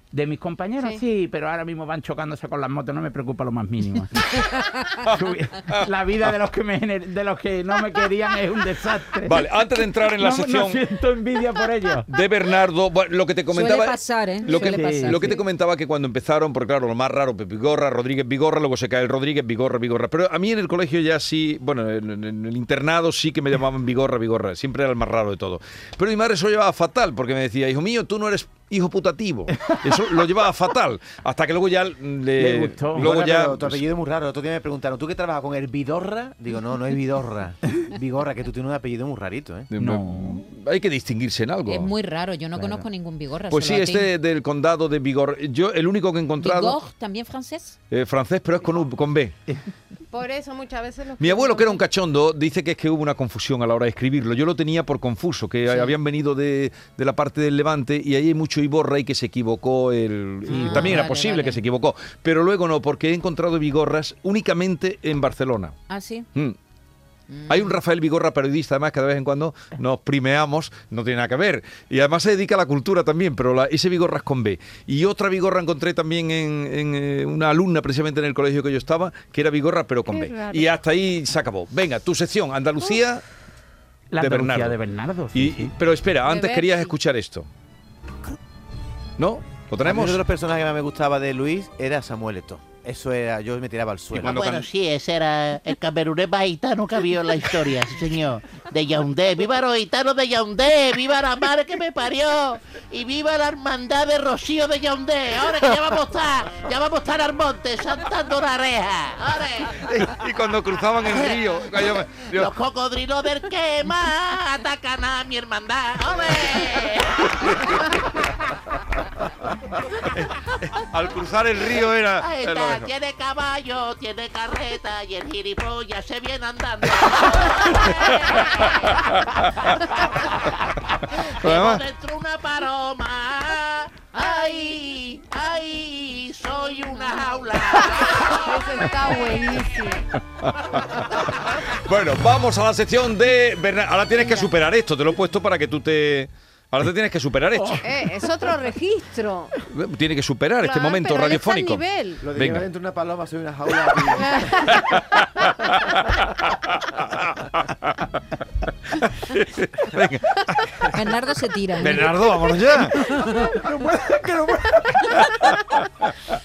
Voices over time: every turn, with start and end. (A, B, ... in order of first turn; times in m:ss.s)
0:00.1-0:09.4 A
0:09.2-0:10.8 B
0:10.1-0:12.0 A
0:12.1-0:33.8 B
0:13.5-0:15.4 C
0:14.5-0:15.4 A
0:32.4-0:33.1 A
0:32.9-0:39.7 D
0:39.7-0:41.9 B
0:39.8-0:40.4 A
0:41.6-0:44.1 C
0:43.5-0:46.8 B
0:46.4-0:47.8 C
0:47.9-0:49.3 B
0:50.1-0:51.8 E
0:51.2-1:05.8 B
0:55.6-0:56.0 C
1:00.5-1:01.6 C
1:05.9-1:06.3 C
1:07.3-1:07.8 C
1:07.5-1:23.2 B
1:20.1-1:20.7 E
1:24.1-1:25.7 A
1:24.2-1:24.8 B
1:25.3-1:27.5 B
1:26.2-1:26.9 E
1:29.2-1:30.2 B
1:29.8-1:34.4 D
1:34.1-1:49.7 F
1:34.2-1:34.7 B
1:49.8-1:52.5 B
1:51.1-1:51.8 F
1:52.4-1:57.7 F
2:00.1-2:02.9 B
2:02.2-2:08.9 F
2:08.5-2:09.8 B
2:11.1-2:18.4 F
2:11.4-2:11.8 B
2:17.7-2:20.1 E
2:20.4-2:21.0 B
2:21.7-2:27.9 B
2:27.8-2:29.5 E
2:29.7-2:32.7 B
2:30.6-2:32.2 E
2:32.2-2:34.7 D
2:34.1-2:35.0 E
2:34.7-2:38.0 B
2:39.0-2:41.0 B
2:40.9-2:42.1 C
2:41.8-2:43.0 B
2:42.9-2:43.5 C
2:43.1-2:45.6 A